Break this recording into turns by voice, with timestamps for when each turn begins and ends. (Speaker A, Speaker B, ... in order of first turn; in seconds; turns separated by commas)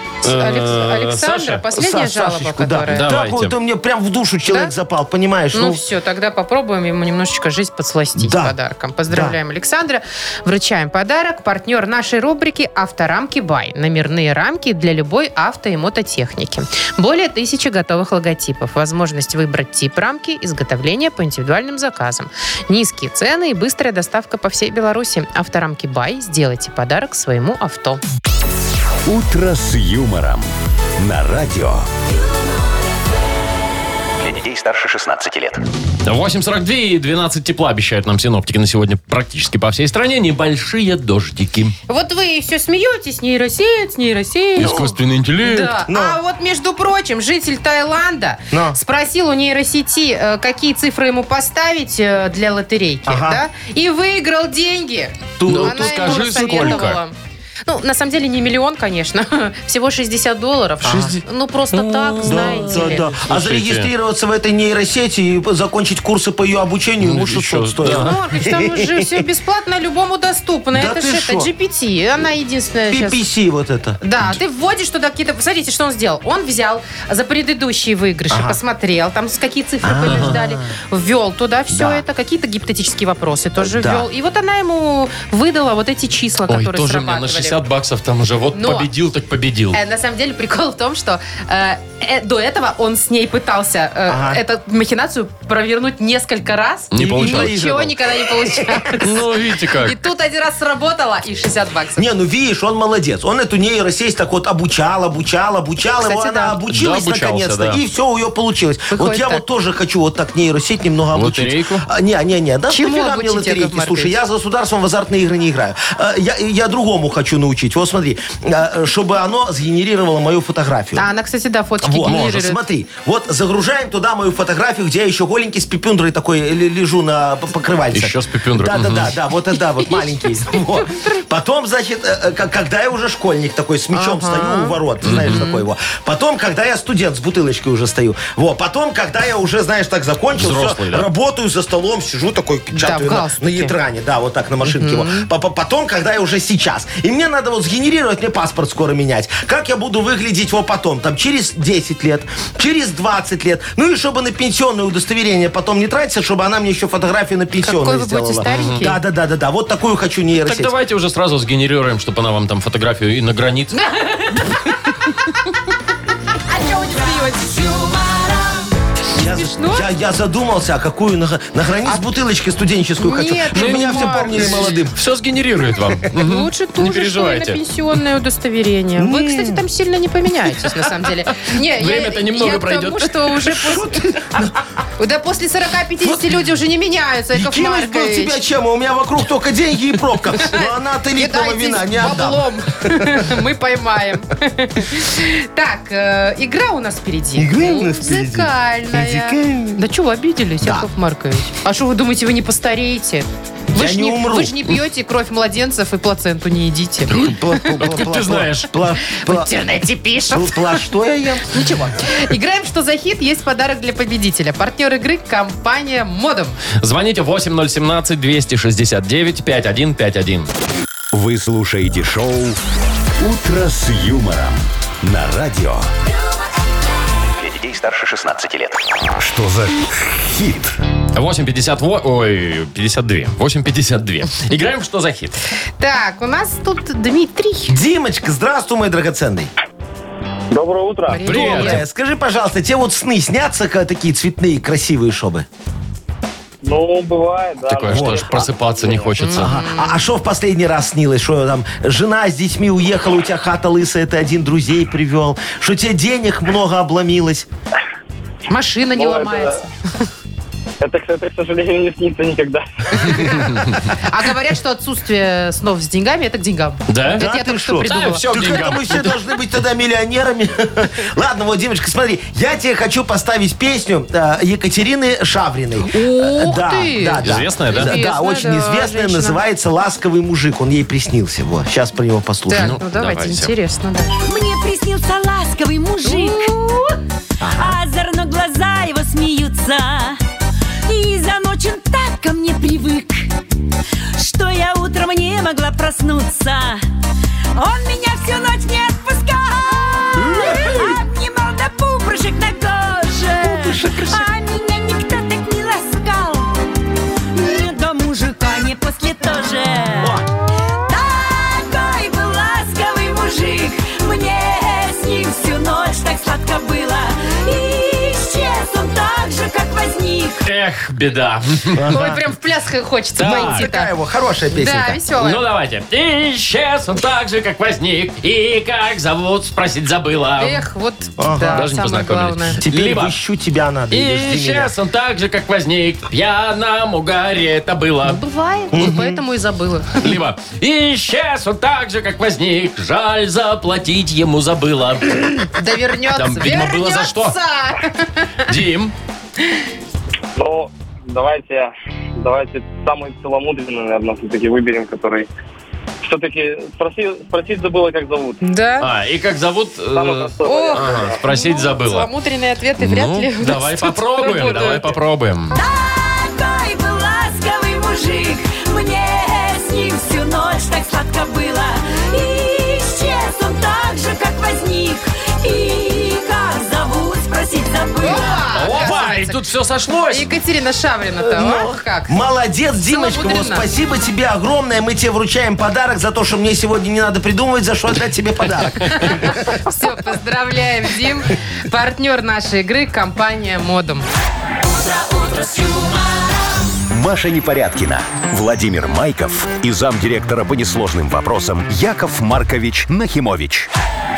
Speaker A: 0.2-3.1, Speaker B: 0.2-1.6, Speaker C: 1.7-5.8, Speaker B: 2.9-3.5, Speaker A: 4.5-4.7, Speaker A: 5.5-28.0, Speaker C: 8.2-8.5, Speaker C: 9.1-9.3, Speaker D: 29.1-31.9, Speaker E: 34.2-35.6, Speaker B: 36.0-41.7, Speaker A: 41.9-44.9, Speaker B: 44.6-45.7, Speaker A: 45.4-57.1, Speaker C: 45.9-46.2, Speaker C: 48.5-48.8, Speaker C: 53.1-53.4, Speaker C: 55.4-56.8, Speaker B: 55.5-57.0, Speaker A: 57.7-63.1, Speaker C: 60.8-61.1, Speaker B: 61.7-63.9, Speaker C: 62.2-69.2, Speaker B: 67.0-68.1, Speaker A: 67.8-73.2, Speaker C: 70.7-71.5, Speaker C: 72.9-74.0, Speaker A: 74.0-87.6, Speaker C: 78.3-78.6, Speaker C: 79.8-80.7, Speaker B: 80.0-80.3, Speaker C: 81.7-82.0, Speaker C: 83.6-84.1, Speaker B: 86.5-89.8, Speaker A: 88.5-88.9, Speaker A: 89.7-99.2, Speaker C: 94.1-94.4, Speaker B: 96.9-97.6, Speaker C: 97.0-99.0, Speaker B: 99.0-99.9, Speaker A: 99.7-102.0, Speaker C: 102.0-121.0, Speaker A: 106.0-106.6, Speaker B: 106.7-107.8, Speaker A: 108.9-109.4, Speaker B: 111.1-111.8, Speaker A: 112.7-114.2, Speaker A: 121.0-122.6, Speaker C: 121.8-160.7, Speaker B: 122.0-122.3, Speaker B: 127.9-129.2, Speaker A: 129.9-131.0, Speaker A: 133.9-135.6, Speaker B: 135.0-135.4, Speaker B: 140.3-141.1, Speaker A: 142.7-143.7, Speaker A: 144.6-145.3, Speaker A: 157.6-159.0, Speaker B: 158.5-158.8, Speaker B: 160.3-163.8, Speaker A: 163.7-165.5, Speaker F: 166.5-168.6, Speaker A: 166.6-167.5, Speaker C: 169.1-175.0, Speaker A: 169.2-169.9, Speaker A: 173.0-174.8, Speaker B: 173.5-177.6, Speaker A: 176.2-184.0, Speaker C: 179.0-179.6, Speaker B: 181.5-183.3, Speaker C: 183.5-184.6, Speaker A: 185.0-188.4, Speaker C: 186.0-186.3, Speaker C: 187.3-193.2, Speaker A: 190.4-207.8, Speaker C: 197.4-199.8, Speaker C: 200.6-200.9, Speaker C: 203.7-204.8, Speaker B: 207.1-208.7, Speaker C: 207.1-209.5, Speaker A: 209.1-210.7, Speaker C: 210.3-211.7, Speaker A: 211.5-216.6, Speaker B: 216.8-220.5, Speaker D: 221.1-222.6, Speaker D: 223.2-225.9, Speaker E: 227.4-228.8, Speaker D: 229.2-230.8, Speaker B: 231.1-235.4, Speaker A: 235.8-237.8, Speaker C: 237.7-239.5, Speaker G: 240.5-241.2, Speaker A: 241.1-241.8, Speaker B: 241.1-241.8, Speaker C: 241.2-245.4, Speaker G: 246.6-249.2, Speaker B: 247.7-249.6, Speaker C: 247.9-248.2, Speaker A: 249.2-250.0, Speaker C: 249.3-257.5, Speaker A: 258.5-259.6, Speaker G: 258.9-259.6, Speaker G: 260.8-263.1, Speaker A: 263.1-268.6, Speaker B: 266.9-267.3, Speaker C: 267.1-282.8, Speaker B: 267.9-269.2, Speaker A: 275.9-279.4, Speaker B: 277.2-278.0, Speaker A: 282.5-284.2, Speaker B: 282.6-283.5, Speaker F: 284.2-287.0, Speaker A: 286.0-286.5, Speaker C: 287.4-287.7, Speaker F: 287.5-290.2, Speaker F: 290.9-293.3, Speaker F: 294.2-296.8, Speaker F: 297.6-306.5, Speaker C: 300.2-301.0, Speaker C: 303.4-304.3, Speaker F: 307.3-310.2, Speaker C: 310.0-310.2, Speaker F: 310.8-320.4, Speaker B: 320.4-321.9, Speaker C: 321.7-322.2, Speaker A: 321.9-323.9, Speaker B: 323.2-323.7, Speaker C: 323.2-325.0, Speaker A: 324.5-325.4, Speaker B: 325.2-330.6, Speaker A: 330.4-332.6, Speaker C: 331.2-331.6, Speaker B: 331.3-333.1, Speaker C: 332.6-334.7, Speaker B: 333.9-338.2, Speaker A: 338.0-340.1, Speaker C: 338.7-339.2, Speaker B: 340.0-345.5, Speaker A: 345.4-348.5, Speaker B: 346.1-347.4, Speaker B: 348.5-348.9, Speaker G: 350.4-355.3, Speaker G: 356.0-358.4, Speaker A: 358.4-358.9, Speaker B: 358.8-362.1, Speaker G: 359.9-361.2, Speaker A: 360.4-364.9, Speaker B: 362.8-365.6, Speaker F: 365.5-378.6, Speaker A: 378.0-379.4, Speaker B: 378.5-380.3, Speaker C: 378.7-379.1, Speaker A: 380.1-382.1, Speaker C: 381.2-389.6, Speaker A: 382.8-383.6, Speaker A: 388.9-394.0, Speaker F: 394.6-396.6, Speaker D: 396.9-403.7